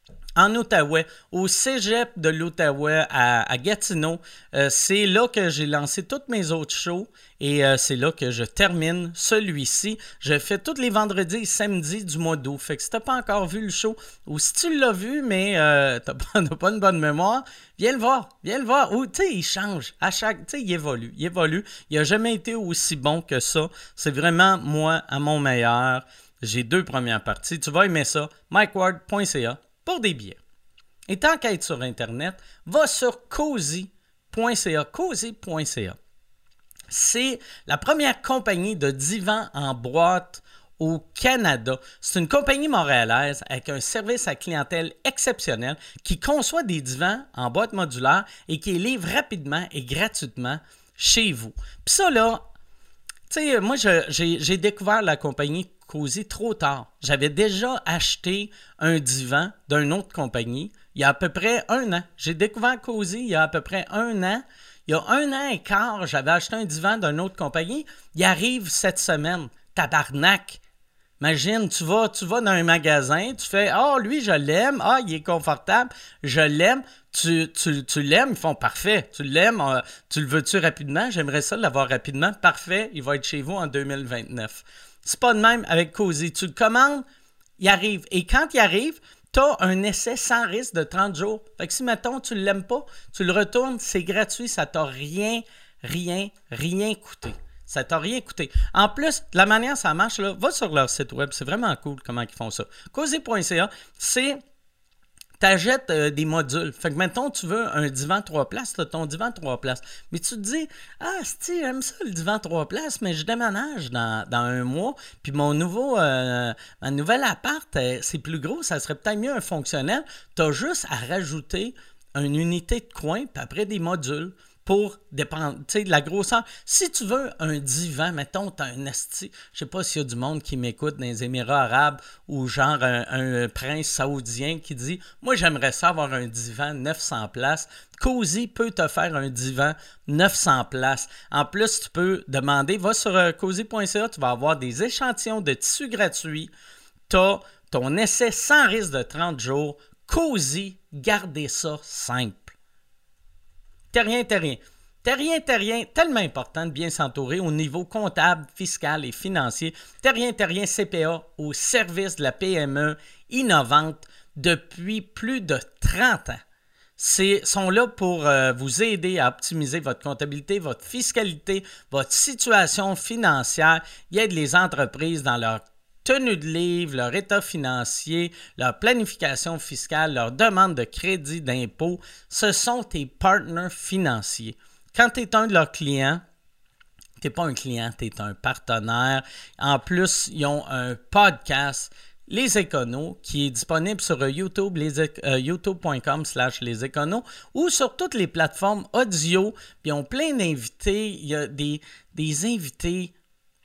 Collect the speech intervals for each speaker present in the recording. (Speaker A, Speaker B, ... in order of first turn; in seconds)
Speaker A: 0.3-30.4, 31.1-36.0, 36.9-52.4, 53.3-70.6, 71.2-87.0, 87.6-104.4, 105.4-146.5, 147.1-152.5, 153.9-166.4, 167.0-186.2, 187.2-203.1